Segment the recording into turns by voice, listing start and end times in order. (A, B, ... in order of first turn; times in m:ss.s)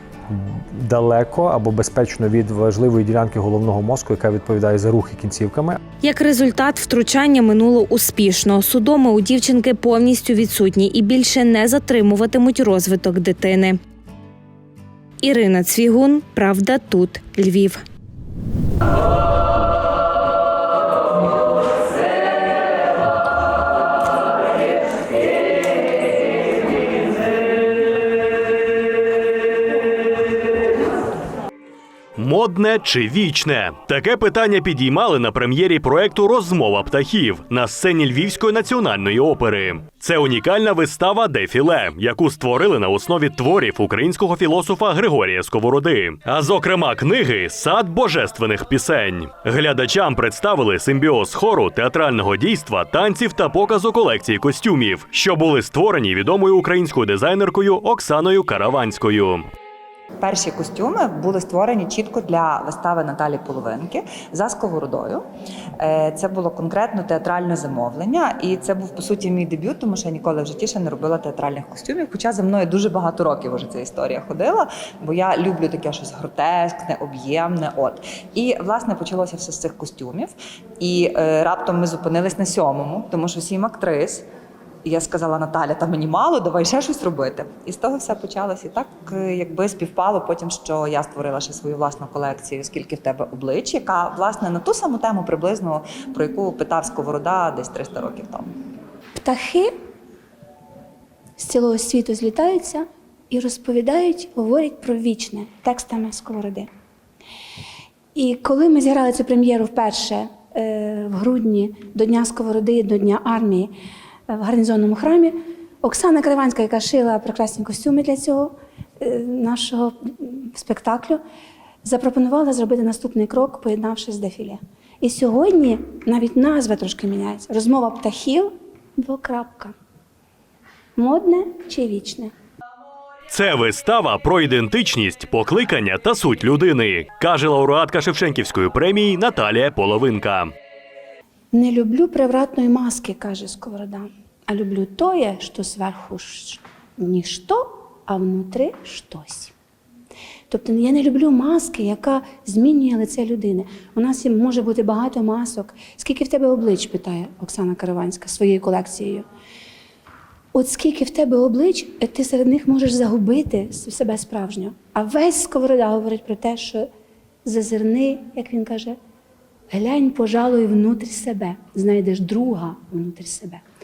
0:00.3-0:05.8 A
0:06.0-0:13.8 B
0:15.2-0:17.8 B
0:32.2-0:59.4 C
1:00.2-1:05.2 D
1:05.8-1:24.3 D
1:24.8-1:38.5 D
1:39.2-1:39.7 E
1:41.4-1:46.7 E
1:48.2-1:53.7 E
1:54.3-2:01.2 E
2:01.8-2:09.7 E
2:11.0-2:12.3 E
2:13.3-2:20.5 C
2:21.5-2:29.5 E
2:30.5-2:39.2 E
2:40.5-2:46.8 E
2:47.4-2:49.0 E
2:49.7-2:53.6 E